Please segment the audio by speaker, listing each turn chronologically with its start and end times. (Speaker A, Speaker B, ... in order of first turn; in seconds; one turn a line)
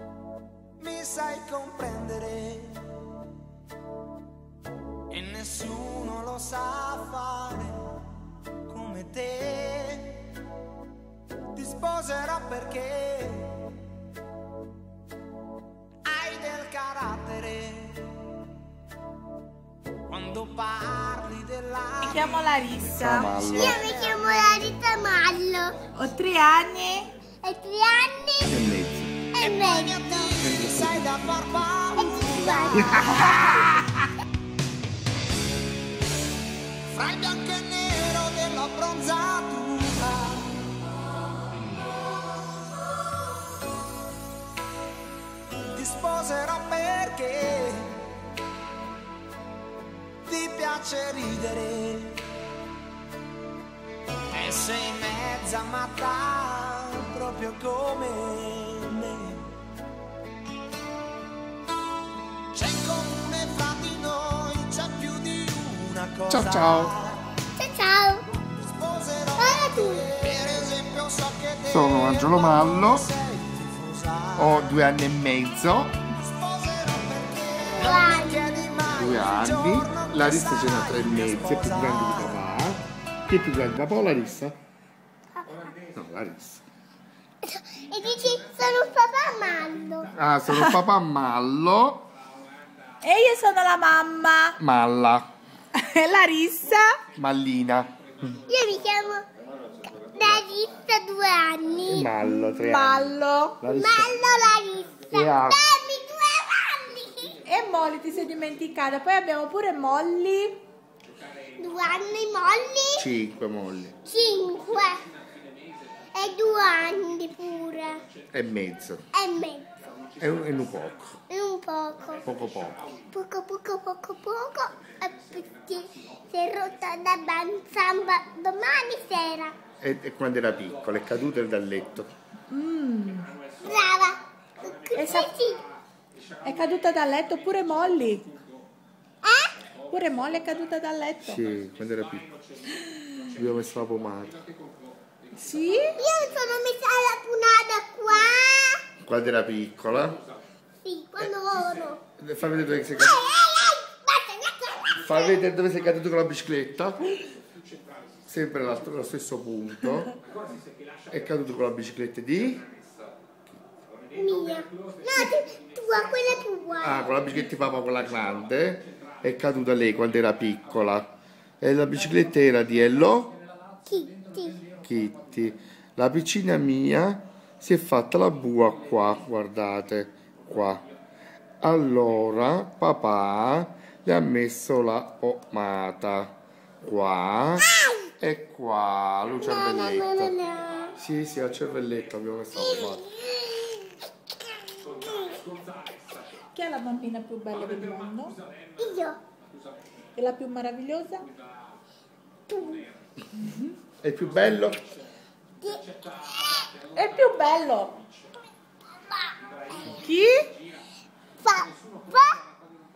Speaker A: 0.8-2.9
Speaker A: 5.1-8.0
Speaker A: 8.7-10.3
Speaker A: 11.5-13.7
Speaker A: 16.1-18.2
Speaker A: 20.1-24.7
Speaker B: 22.0-23.3
Speaker C: 23.0-23.8
Speaker D: 23.6-25.8
Speaker B: 25.9-27.1
Speaker D: 27.4-28.6
Speaker C: 28.5-29.3
Speaker D: 29.4-30.4
Speaker A: 29.4-33.2
Speaker C: 30.4-31.7
Speaker D: 31.9-33.7
Speaker C: 32.7-33.8
Speaker A: 36.9-40.6
Speaker A: 45.7-48.1
Speaker A: 50.3-52.2
Speaker A: 54.3-59.5
Speaker A: 62.5-67.2
Speaker C: 66.3-66.9
Speaker D: 67.6-68.3
Speaker A: 68.4-74.8
Speaker D: 69.4-70.1
Speaker C: 71.7-73.1
Speaker C: 74.4-76.0
Speaker A: 76.1-82.4
Speaker D: 77.8-78.7
Speaker C: 78.9-84.6
Speaker D: 85.5-85.8
Speaker C: 85.9-86.6
Speaker D: 87.4-90.1
Speaker C: 90.1-92.1
Speaker B: 90.5-90.7
Speaker B: 93.0-94.6
Speaker C: 94.6-95.3
Speaker B: 95.8-97.0
Speaker C: 97.2-97.9
Speaker D: 98.5-99.3
Speaker D: 100.0-102.1
Speaker C: 101.8-104.2
Speaker B: 102.2-103.6
Speaker D: 103.7-107.4
Speaker C: 105.1-105.6
Speaker B: 107.5-110.6
Speaker D: 111.6-113.1
Speaker C: 113.0-114.0
Speaker D: 114.0-115.1
Speaker D: 116.1-118.0
Speaker C: 118.3-119.0
Speaker D: 119.1-119.8
Speaker C: 120.2-121.1
Speaker D: 121.3-122.3
Speaker C: 122.2-122.9
Speaker D: 123.0-129.6
Speaker C: 129.8-132.1
Speaker B: 132.5-133.3
Speaker D: 133.6-135.7
Speaker B: 134.9-135.3
Speaker B: 136.4-138.3
Speaker D: 139.2-139.6
Speaker B: 139.9-141.4
Speaker C: 141.2-142.3
Speaker C: 143.3-144.4
Speaker B: 145.3-146.0
Speaker D: 145.8-148.8
Speaker C: 149.0-150.2
Speaker D: 150.8-152.0
Speaker C: 152.2-153.3
Speaker D: 152.9-155.4
Speaker C: 155.0-157.2
Speaker C: 158.3-160.2
Speaker C: 161.1-162.7
Speaker D: 164.2-167.1
Speaker C: 166.8-171.1
Speaker C: 171.6-173.4
Speaker D: 173.9-174.7
Speaker C: 174.8-180.8
Speaker C: 181.6-187.7
Speaker C: 188.2-190.4
Speaker D: 189.4-191.0
Speaker C: 191.0-193.1
Speaker D: 192.7-194.0
Speaker D: 194.9-195.4
Speaker B: 196.5-198.4
Speaker D: 198.8-199.2
Speaker B: 200.2-201.3
Speaker D: 202.5-202.9
Speaker B: 203.4-203.7
Speaker C: 204.0-204.9
Speaker D: 205.6-206.7
Speaker B: 206.9-208.0
Speaker D: 209.5-210.0
Speaker B: 209.8-210.5
Speaker D: 211.4-212.4